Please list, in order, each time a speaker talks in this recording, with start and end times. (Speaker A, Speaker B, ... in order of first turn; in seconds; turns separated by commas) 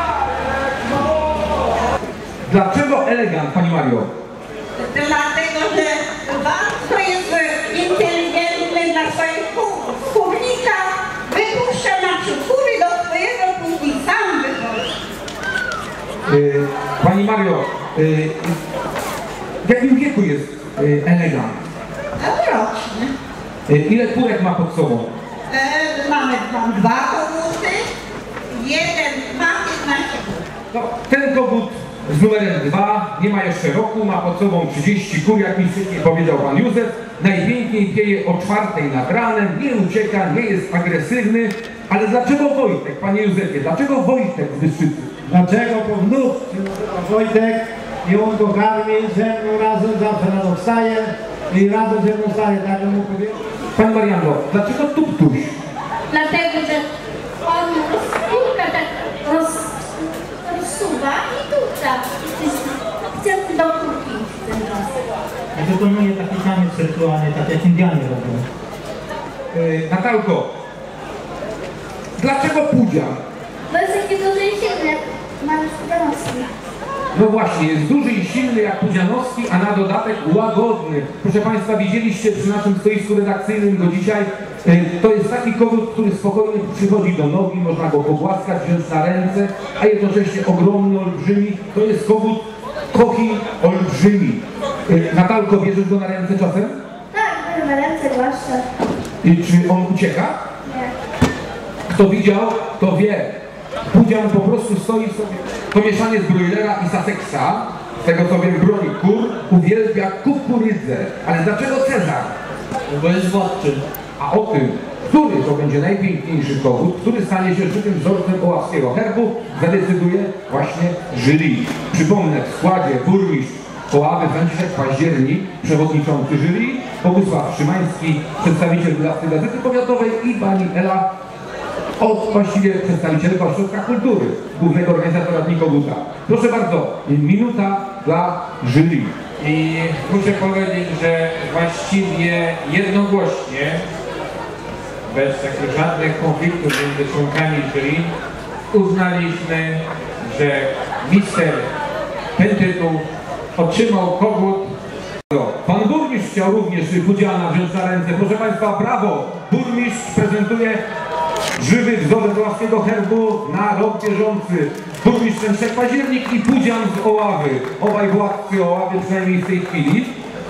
Speaker A: 2.5-4.1, Speaker B: 4.8-14.9, Speaker A: 16.3-18.6, Speaker A: 19.6-21.6, Speaker B: 22.2-23.1, Speaker A: 23.7-25.1, Speaker B: 25.5-27.8, Speaker B: 28.6-30.4, Speaker A: 30.7-45.1, Speaker C: 45.3-53.4, Speaker A: 53.7-55.5, Speaker D: 56.1-56.9, Speaker D: 57.5-65.0, Speaker E: 65.5-68.5, Speaker A: 69.5-70.5, Speaker A: 72.2-73.2, Speaker D: 73.7-76.5, Speaker A: 77.1-96.8, Speaker D: 97.1-98.6, Speaker A: 99.2-100.4, Speaker D: 100.7-100.9, Speaker A: 101.9-103.3, Speaker A: 103.9-112.3, Speaker E: 112.9-113.8, Speaker A: 114.2-131.1, Speaker A: 132.0-139.1, Speaker F: 139.4-143.8, Speaker F: 145.1-148.1, Speaker F: 148.7-151.7, Speaker F: 152.3-153.0, Speaker F: 153.6-154.7, Speaker A: 155.3-160.8, Speaker A: 161.6-170.1